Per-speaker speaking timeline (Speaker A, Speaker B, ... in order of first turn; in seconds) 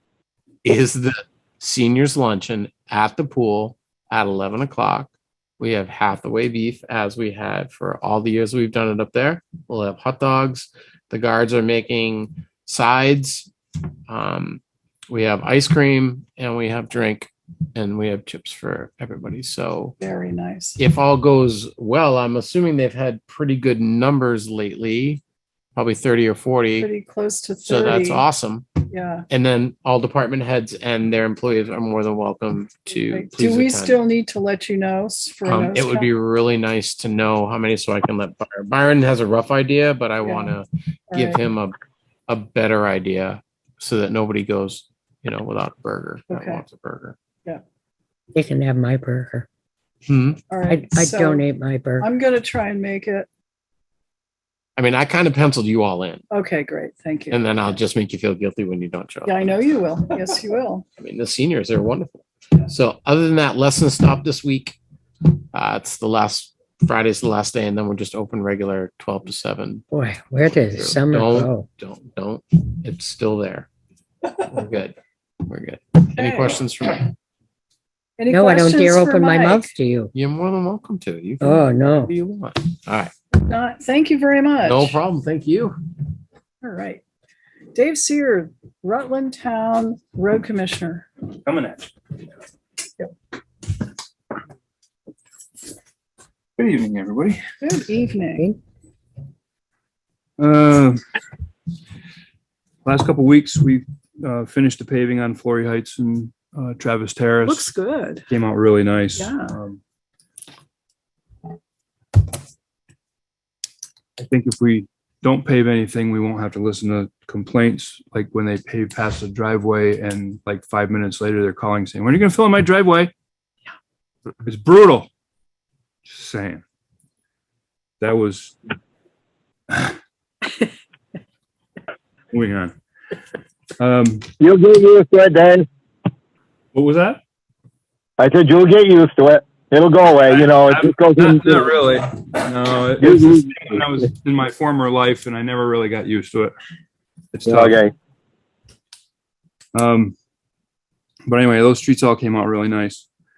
Speaker A: 0.6-13.5, 14.1-20.0, 20.8-25.2, 25.8-26.9, 27.7-28.7, 29.3-34.0, 35.5-47.1, 50.1-50.4, 54.8-56.2, 57.3-59.6, 61.0-64.8, 65.5-69.8, 70.7-73.7, 74.4-77.1, 80.1-83.1, 84.7-85.8
Speaker B: 20.0-20.8, 26.8-28.2, 28.9-29.2, 32.9-36.1, 40.2-40.5, 41.1-41.4, 46.3-46.6, 50.5-51.4, 52.0-53.3, 56.3-57.8, 59.2-60.8, 76.2-76.6, 78.2-79.7, 83.3-85.0, 86.6-87.0, 87.7-91.1, 97.6-98.5, 107.5-108.2, 109.2-109.6
Speaker C: 48.3-49.5, 50.7-52.1, 69.9-71.7, 78.3-80.1, 81.4-82.1
Speaker D: 91.4-91.9, 96.6-97.4, 100.4-101.0, 102.8-107.7, 108.3-109.8, 114.2-123.1, 124.4-125.1, 126.1-126.6, 128.0-128.6, 129.7-129.9, 132.3-132.7, 133.8-134.3, 136.7-137.2, 140.2-146.5, 147.3-147.8, 149.7-150.1, 151.2-153.1
Speaker E: 134.4-135.7, 138.2-141.7, 143.0-143.8, 147.4-147.9